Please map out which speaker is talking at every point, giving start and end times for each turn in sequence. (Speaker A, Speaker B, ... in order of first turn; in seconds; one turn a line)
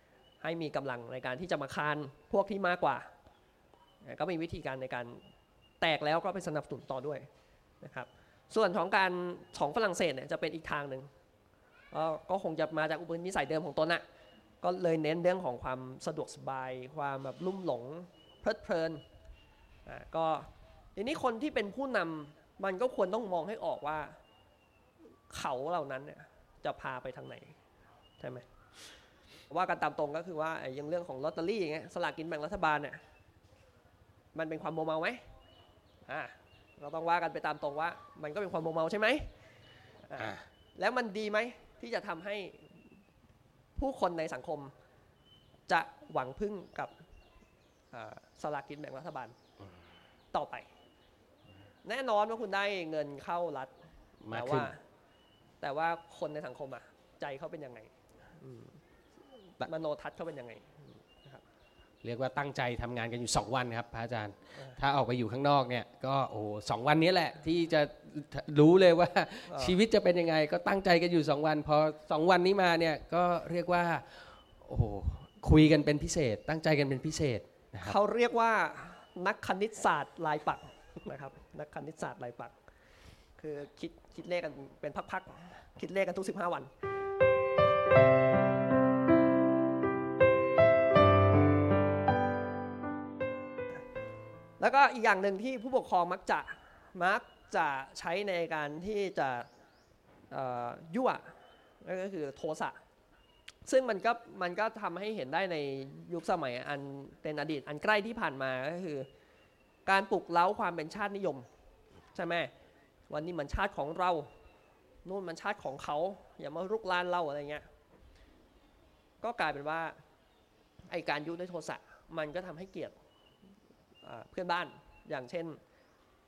Speaker A: 0.4-3.1
Speaker A: 4.0-5.2
Speaker A: 5.8-7.3
Speaker A: 7.8-11.1
Speaker A: 11.9-14.0
Speaker A: 14.6-19.0
Speaker A: 19.9-24.2
Speaker A: 25.3-27.6
Speaker A: 28.2-28.5
Speaker A: 29.5-33.0
Speaker A: 34.4-35.2
Speaker A: 36.1-39.3
Speaker A: 40.1-42.8
Speaker B: 40.2-40.4
Speaker A: 43.8-44.7
Speaker A: 45.7-46.9
Speaker A: 47.9-49.4
Speaker A: 50.3-50.7
Speaker A: 51.9-53.7
Speaker B: 54.2-54.7
Speaker A: 54.3-54.8
Speaker A: 55.6-58.8
Speaker A: 59.6-61.4
Speaker B: 62.0-78.0
Speaker A: 69.5-69.8
Speaker A: 77.8-82.6
Speaker A: 83.4-86.7
Speaker A: 94.6-99.5
Speaker A: 100.3-102.8
Speaker A: 103.7-109.1
Speaker A: 109.9-111.5
Speaker A: 112.1-112.5
Speaker A: 113.1-114.3
Speaker A: 115.0-117.7
Speaker A: 119.2-120.0
Speaker A: 120.9-123.0
Speaker A: 124.0-125.6